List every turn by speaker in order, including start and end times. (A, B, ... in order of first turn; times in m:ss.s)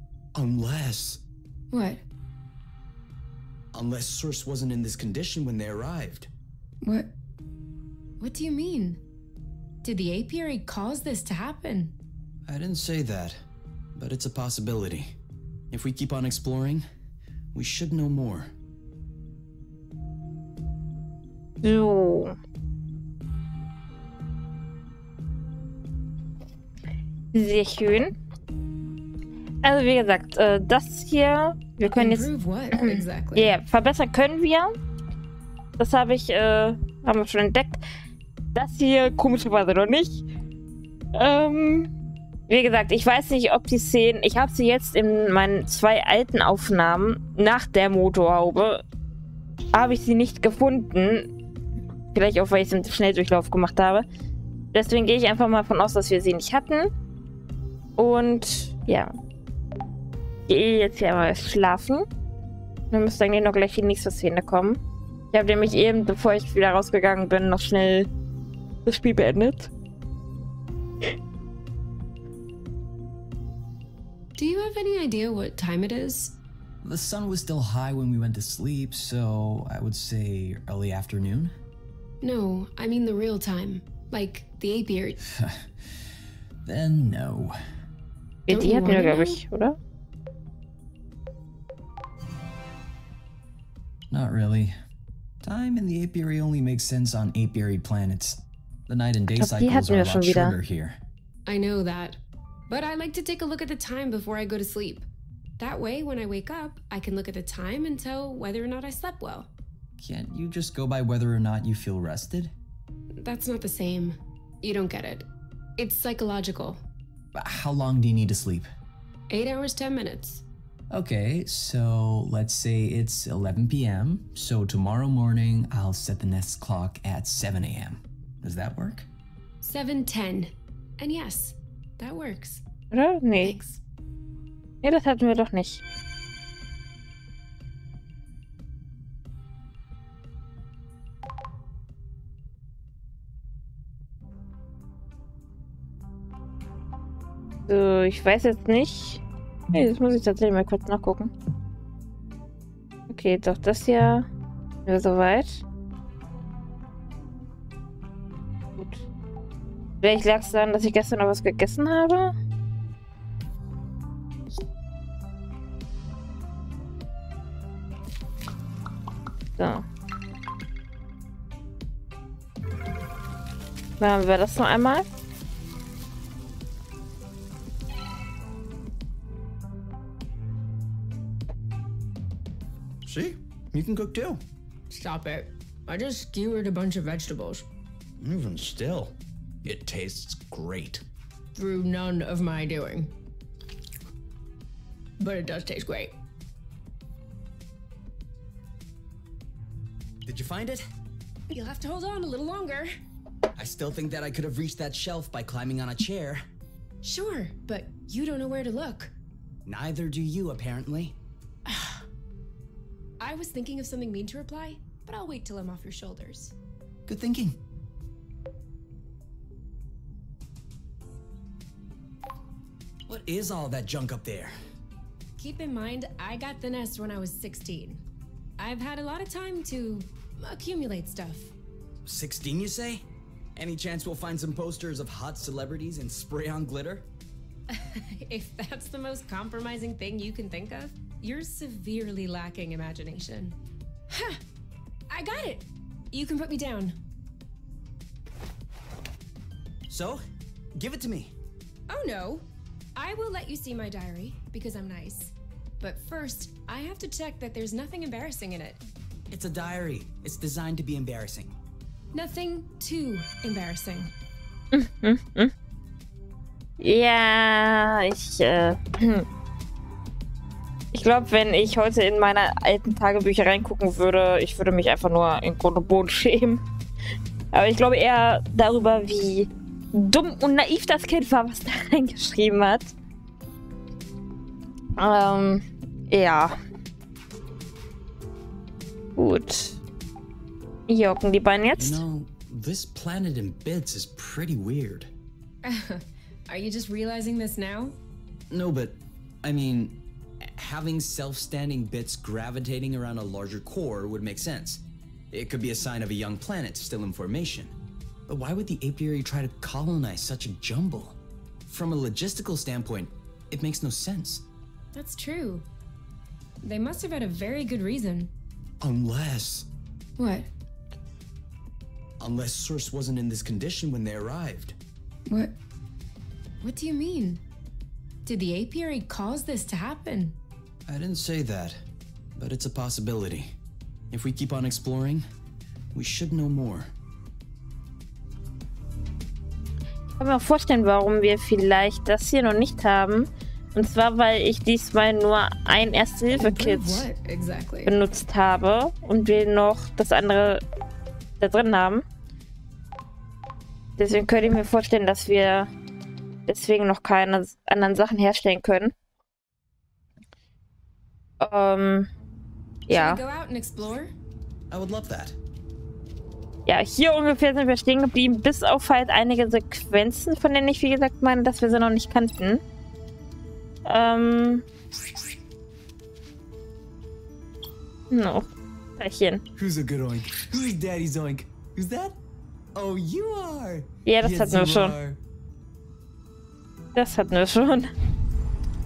0:00.4-0:01.2 A
0:01.7-0:02.0 B
0:03.7-0:06.3 A
0:06.8-0:07.1 B
0:08.2-0:09.0 B
0:09.8-0:11.9 B
0:12.5-0:13.4 A
0:14.0-0:15.1 A
0:15.7-0:16.8 A
0:17.5-0:18.5 A
0:21.6-0:22.4 C
0:27.3-0:28.1 C
0:29.6-0:34.7 C
0:31.9-0:33.5 B
0:35.8-0:37.8 C
0:38.6-0:40.2 C
0:41.1-0:41.9 C
0:42.5-0:48.8 C
0:49.7-0:51.3 C
0:52.1-0:54.1 C
0:54.7-0:56.9 C
0:58.0-0:59.1 C
1:00.5-1:02.1 C
1:02.9-1:04.8 C
1:05.3-1:08.1 C
1:08.9-1:09.7 C
1:14.4-1:16.4 B
1:16.8-1:21.5 A
1:22.2-1:25.2 B
1:25.3-1:26.0 A
1:26.6-1:27.6 A
1:28.5-1:29.8 C
1:28.5-1:29.4 B
1:34.1-1:34.7 A
1:35.4-1:41.0 A
1:39.4-1:40.6 C
1:41.5-1:45.1 B
1:45.6-1:49.5 B
1:50.0-1:52.5 A
1:53.2-1:56.8 B
1:57.4-1:58.7 A
1:59.3-2:00.4 B
2:00.9-2:09.1 A
2:09.6-2:12.6 B
2:12.9-2:13.6 C
2:13.4-2:13.8 B
2:14.8-2:15.8 C
2:27.7-2:31.3 C
2:33.1-2:34.3 C
2:34.9-2:35.6 C
2:38.8-2:39.1 C
2:40.0-2:42.3 C
2:49.6-2:49.8 C
2:54.0-2:55.0 C
3:03.0-3:04.4 A
3:04.9-3:07.7 B
3:08.2-3:11.0 A
3:11.6-3:13.1 B
3:15.2-3:16.2 B
3:20.2-3:20.8 A
3:21.5-3:22.9 B
3:23.6-3:26.4 A
3:27.0-3:29.1 B
3:29.7-3:31.2 A
3:31.7-3:32.0 B
3:33.2-3:36.5 B
3:37.1-3:37.6 A
3:43.1-3:44.5 A
3:45.4-3:48.0 B
3:48.6-3:51.5 B
3:52.0-3:57.1 A
3:57.7-4:03.6 B
4:04.1-4:04.4 B
4:05.1-4:07.0 B
4:09.9-4:10.2 A
4:10.8-4:11.3 A
4:11.9-4:12.4 B
4:13.0-4:18.8 B
4:19.3-4:21.6 A
4:22.1-4:24.1 B
4:24.7-4:25.5 C
4:26.8-4:29.3 C
4:30.9-4:36.6 C
4:37.5-4:42.9 C
4:45.0-4:46.6 C
4:49.2-4:49.8 C
4:50.9-4:52.0 C
4:51.8-4:55.1 A
4:55.6-4:58.0 B
4:58.5-5:07.8 A
5:08.3-5:14.4 A
5:14.9-5:15.7 B
5:16.6-5:18.3 B
5:18.8-5:19.7 A
5:20.2-5:20.5 B
5:22.2-5:24.8 A
5:25.3-5:25.6 B
5:26.6-5:27.4 B
5:28.2-5:30.4 B
5:30.9-5:31.8 A
5:32.4-5:33.5 A
5:34.1-5:35.2 A
5:35.9-5:36.9 A
5:40.2-5:47.1 C
5:46.3-5:48.0 B
5:47.9-5:50.6 C
5:51.4-5:52.0 C
5:54.0-5:55.7 C
5:56.5-5:58.9 C
6:01.4-6:02.1 C
6:02.9-6:04.1 B
6:02.9-6:03.2 C
6:04.7-6:05.4 A
6:06.7-6:12.6 C
6:13.9-6:14.6 C
6:18.1-6:19.4 C
6:19.6-6:22.2 A
6:22.8-6:25.2 A
6:24.1-6:25.0 C
6:27.0-6:27.9 C